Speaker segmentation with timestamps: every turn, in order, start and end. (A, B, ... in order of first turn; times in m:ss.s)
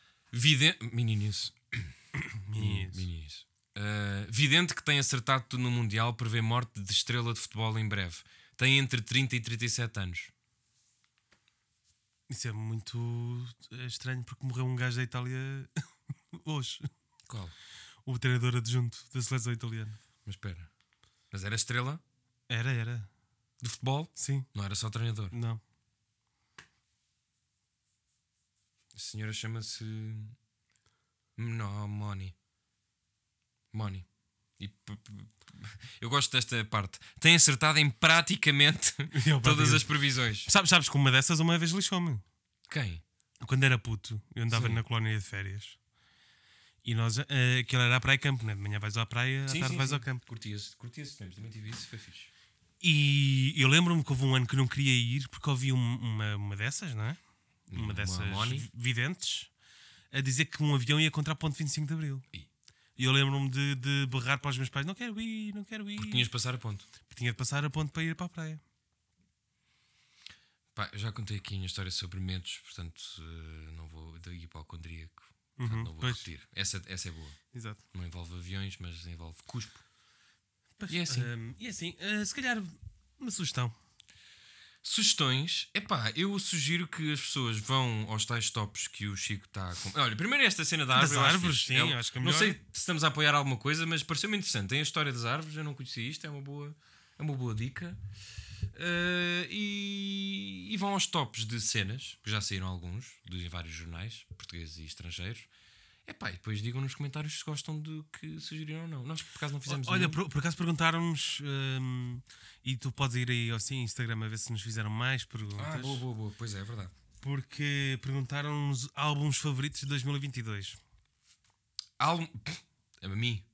0:00.3-0:01.9 A
0:02.2-0:03.0 B
0:02.5-0:10.3 A
0:12.3-0:15.7 B
0:16.3-0:16.9 B
0:17.3-0:17.5 A
0:18.0-0:20.0 B
0:20.2-0:20.7 A
0:21.3-0:22.0 A
0:22.5-0:23.1 B
0:23.6-0:25.3 A
0:24.2-0:24.5 B
0:25.3-0:25.6 B
0:28.9-0:30.4 A
0:31.4-0:32.3 A
0:33.7-0:34.0 A
0:34.6-0:40.5 A
0:39.1-0:39.9 B
0:40.4-0:42.2 B
0:42.7-0:43.0 A
0:43.4-0:45.8 B
0:44.5-0:44.8 A
0:46.8-0:50.2 B
0:49.5-0:52.3 A
0:52.8-0:57.2 B
0:57.7-0:58.7 A
0:57.7-0:59.5 B
1:00.1-1:02.2 B
1:03.0-1:06.3 B
1:06.0-1:06.8 A
1:07.1-1:08.6 B
1:10.7-1:17.4 A
1:15.6-1:16.2 B
1:17.5-1:17.8 B
1:17.9-1:19.8 A
1:20.8-1:23.7 B
1:20.9-1:21.3 A
1:24.8-1:38.0 A
1:30.9-1:32.6 B
1:38.7-1:45.5 A
1:46.0-1:50.2 A
1:49.6-1:56.0 B
1:55.6-1:56.9 A
1:57.2-2:00.8 B
2:02.0-2:03.4 A